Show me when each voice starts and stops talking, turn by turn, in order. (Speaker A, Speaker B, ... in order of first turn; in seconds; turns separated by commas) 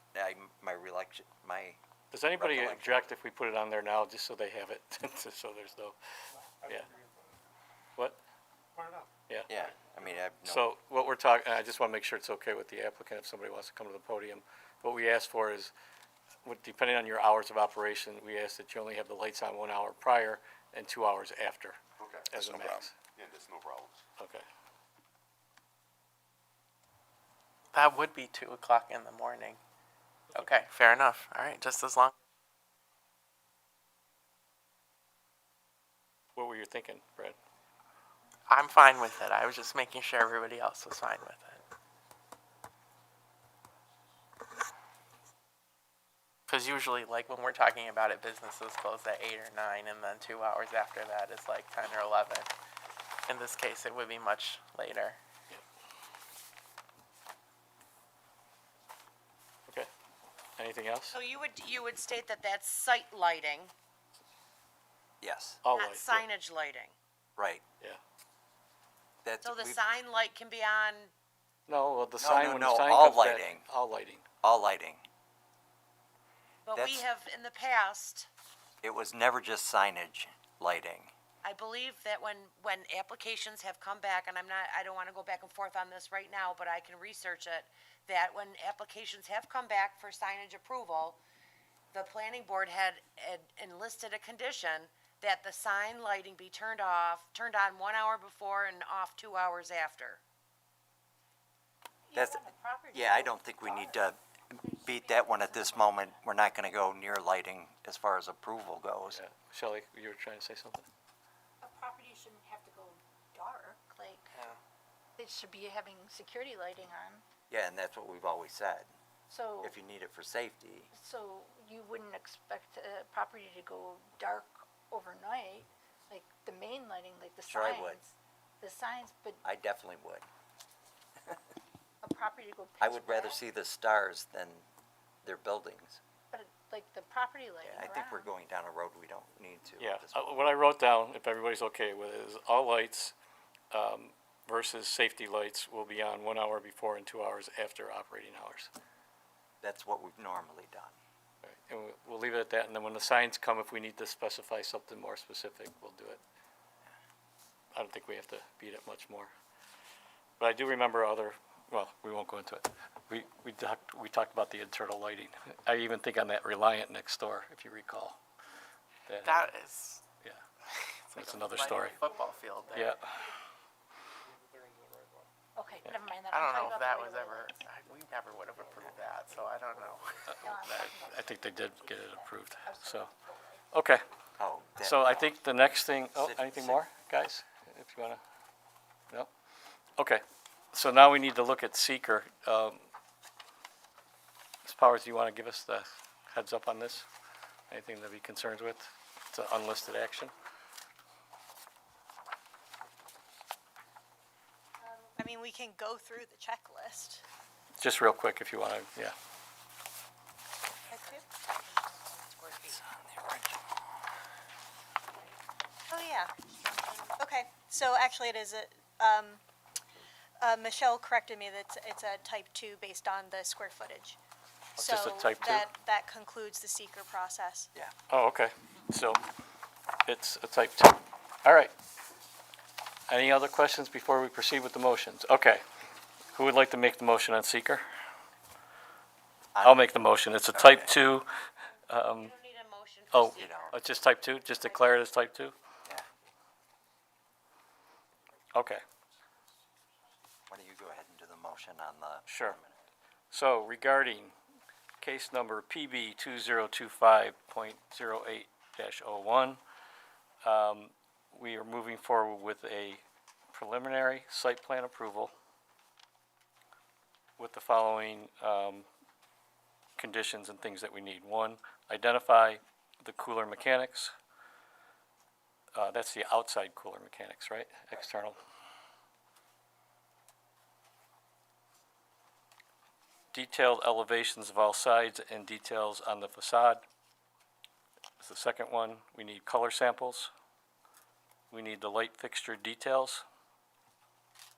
Speaker A: 0.1-1.8, Speaker B: 2.1-6.0, Speaker A: 2.4-3.1, Speaker A: 9.5-10.7, Speaker B: 10.4-15.7, Speaker B: 16.4-22.9, Speaker C: 22.0-24.0, Speaker B: 24.2-24.4, Speaker D: 27.7-29.6, Speaker D: 30.3-32.1, Speaker B: 36.4-37.4, Speaker D: 38.5-41.6, Speaker D: 46.5-52.5, Speaker D: 53.3-55.2, Speaker B: 60.6-61.2, Speaker E: 61.1-63.7, Speaker A: 65.2-65.6, Speaker B: 65.6-66.2, Speaker E: 65.7-67.0, Speaker A: 67.4-67.6, Speaker A: 69.2-69.8, Speaker E: 69.4-71.1, Speaker B: 71.7-74.2, Speaker A: 72.2-73.6, Speaker A: 74.4-75.0, Speaker E: 76.7-78.3, Speaker A: 76.8-77.1, Speaker A: 78.8-81.1, Speaker E: 81.4-91.2, Speaker E: 91.9-100.2, Speaker F: 102.1-104.1, Speaker A: 102.2-109.2, Speaker F: 104.6-106.1, Speaker B: 109.1-110.9, Speaker F: 111.6-114.5, Speaker F: 115.2-117.2, Speaker A: 117.5-118.9, Speaker F: 119.3-119.8, Speaker A: 119.6-120.9, Speaker F: 120.9-129.4, Speaker A: 127.5-128.0, Speaker A: 129.4-130.3, Speaker F: 132.0-133.4, Speaker A: 132.8-134.7, Speaker A: 135.2-136.0, Speaker F: 136.3-138.3, Speaker A: 137.6-140.2, Speaker B: 139.8-143.1, Speaker B: 143.7-148.7, Speaker A: 149.6-151.0, Speaker B: 151.4-156.2, Speaker B: 157.7-159.3, Speaker B: 160.4-168.2, Speaker B: 169.1-169.5, Speaker D: 169.2-170.0, Speaker D: 170.7-173.0, Speaker B: 171.2-172.0, Speaker B: 172.8-173.1, Speaker F: 175.6-177.7, Speaker D: 176.3-180.2, Speaker F: 180.3-183.6, Speaker B: 180.6-183.1, Speaker B: 183.7-184.0, Speaker A: 184.4-185.4, Speaker B: 184.8-188.2, Speaker A: 186.2-186.8, Speaker B: 190.0-190.2, Speaker B: 190.7-192.8, Speaker B: 194.7-197.1, Speaker B: 197.7-200.3, Speaker G: 205.2-207.2, Speaker B: 207.8-209.2, Speaker E: 210.9-212.8, Speaker A: 213.2-213.5, Speaker G: 215.9-216.3, Speaker G: 217.2-219.4, Speaker G: 220.4-224.2, Speaker B: 224.8-225.7, Speaker G: 224.8-227.7, Speaker B: 228.1-229.2, Speaker B: 230.1-231.7, Speaker B: 233.1-235.6, Speaker B: 236.3-237.8, Speaker A: 239.6-239.8, Speaker B: 239.6-241.3, Speaker A: 240.5-240.9, Speaker B: 241.9-242.3, Speaker E: 242.2-243.7, Speaker B: 243.1-245.6, Speaker A: 243.4-243.7, Speaker B: 248.5-248.8, Speaker A: 250.5-252.7, Speaker B: 252.3-252.6, Speaker B: 253.3-254.3, Speaker B: 255.0-259.6, Speaker B: 260.4-263.0, Speaker B: 263.5-265.3, Speaker B: 267.4-268.9, Speaker B: 270.0-274.1, Speaker B: 275.8-278.4, Speaker B: 283.3-286.8, Speaker B: 288.2-290.3, Speaker B: 291.5-293.2